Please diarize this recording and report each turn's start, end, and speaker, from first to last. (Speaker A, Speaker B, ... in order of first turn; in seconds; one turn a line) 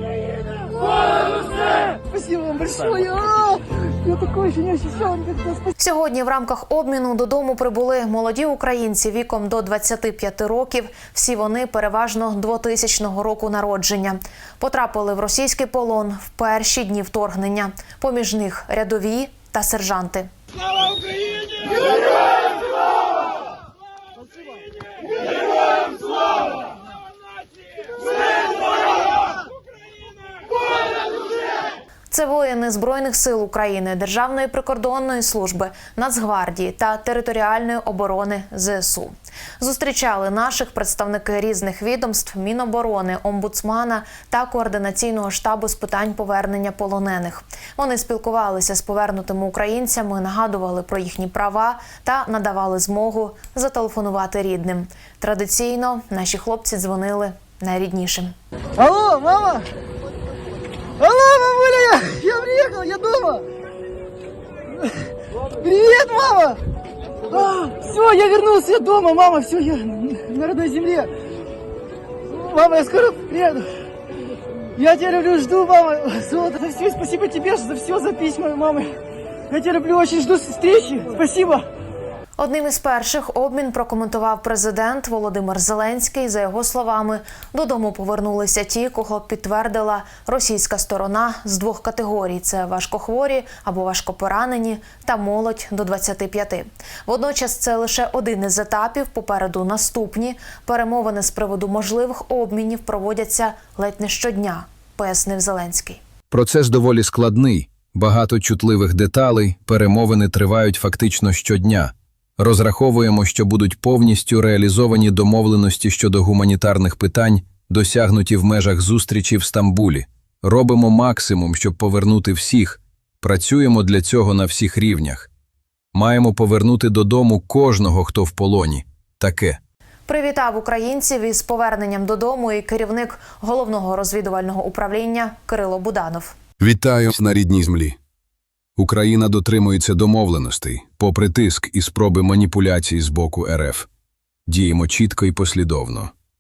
Speaker A: 1.8-5.7
Speaker B: 5.8-20.3
Speaker B: 32.1-58.4
Speaker A: 58.8-59.7
Speaker A: 61.0-63.5
Speaker A: 65.6-66.6
Speaker A: 67.3-71.1
Speaker A: 72.3-73.7
Speaker A: 74.8-79.0
Speaker A: 79.5-81.7
Speaker B: 82.4-106.0
Speaker C: 106.3-125.3
Speaker C: 125.9-129.6
Speaker B: 130.1-136.4
Speaker C: 136.6-138.0
Speaker C: 138.8-143.9
Speaker C: 144.5-146.1